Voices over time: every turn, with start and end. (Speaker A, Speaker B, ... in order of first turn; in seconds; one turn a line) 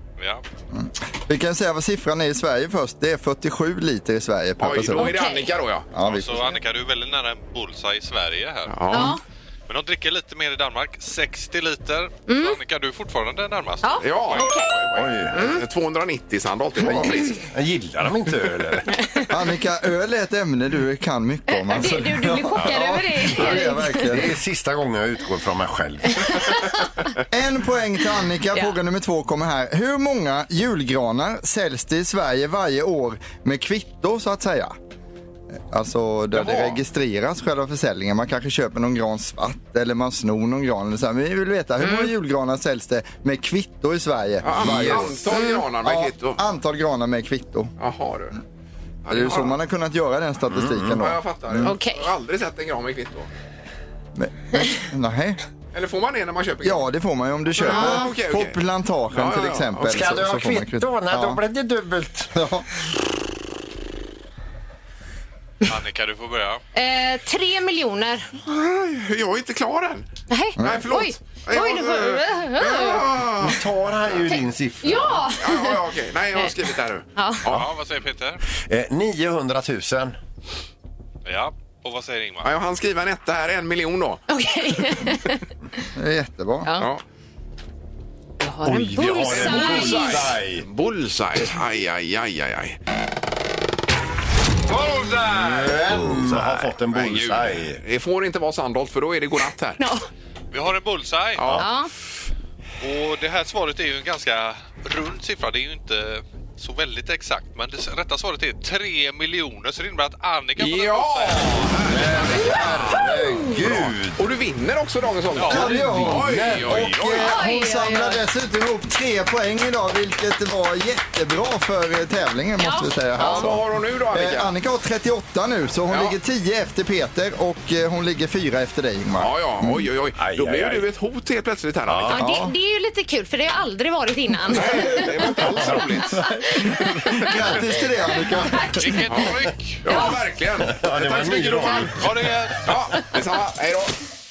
Speaker A: 0.2-0.4
Speaker B: 0.7-5.1
Speaker C: 4.6-5.9
Speaker D: 5.0-5.5
Speaker B: 5.9-6.5
Speaker A: 6.0-9.1
Speaker C: 8.7-9.2
Speaker D: 8.9-9.2
Speaker A: 9.7-14.4
Speaker D: 12.3-12.6
Speaker D: 13.8-14.8
Speaker C: 14.0-17.5
Speaker E: 14.9-15.4
Speaker D: 15.3-15.6
Speaker E: 16.8-18.9
Speaker D: 18.9-19.3
Speaker B: 19.3-24.3
Speaker D: 21.5-24.1
Speaker E: 24.0-26.4
Speaker D: 26.3-26.7
Speaker B: 27.3-34.7
Speaker B: 35.5-45.2
Speaker C: 36.3-36.8
Speaker D: 41.8-42.1
Speaker C: 44.4-46.4
Speaker E: 44.5-45.1
Speaker D: 45.3-45.6
Speaker B: 45.8-47.7
Speaker C: 47.8-48.4
Speaker C: 49.0-49.6
Speaker B: 49.1-51.7
Speaker E: 50.5-51.0
Speaker C: 50.9-53.3
Speaker D: 51.6-52.0
Speaker B: 54.1-55.4
Speaker C: 55.7-56.8
Speaker B: 56.6-61.4
Speaker C: 57.6-58.6
Speaker D: 57.6-58.1
Speaker C: 59.1-60.0
Speaker E: 59.8-62.3
Speaker B: 62.3-62.7
Speaker A: 65.7-66.6
Speaker D: 66.7-68.3
Speaker C: 68.4-70.1
Speaker D: 70.3-73.0
Speaker B: 70.6-70.9
Speaker C: 70.6-73.6
Speaker E: 73.3-75.3
Speaker D: 74.3-75.8
Speaker C: 75.4-77.7
Speaker D: 77.2-77.4
Speaker A: 77.5-78.4
Speaker E: 78.7-80.2
Speaker A: 81.2-82.5
Speaker C: 82.4-84.2
Speaker D: 84.3-85.4
Speaker B: 86.0-86.7
Speaker D: 86.6-86.9
Speaker D: 88.4-90.2
Speaker E: 88.6-90.7
Speaker C: 89.2-92.8
Speaker E: 94.7-97.8
Speaker C: 96.0-99.8
Speaker D: 99.8-100.0
Speaker A: 100.5-101.4
Speaker C: 101.4-101.6
Speaker D: 101.6-101.9
Speaker A: 102.8-111.8
Speaker C: 110.6-117.4
Speaker E: 111.8-114.2
Speaker A: 115.3-115.7
Speaker B: 115.5-129.8
Speaker E: 115.5-116.9
Speaker D: 117.2-118.2
Speaker D: 122.6-123.5
Speaker C: 123.2-124.5
Speaker C: 125.9-126.2
Speaker C: 129.2-132.2
Speaker E: 130.2-130.8
Speaker E: 131.9-132.2
Speaker D: 132.1-137.3
Speaker B: 132.2-132.5
Speaker C: 134.5-136.2
Speaker E: 135.4-136.3
Speaker B: 137.0-139.0
Speaker D: 138.2-139.0
Speaker A: 138.7-140.1
Speaker C: 139.1-142.1
Speaker D: 139.9-140.2
Speaker E: 140.6-142.1
Speaker A: 141.9-142.7
Speaker C: 142.6-143.9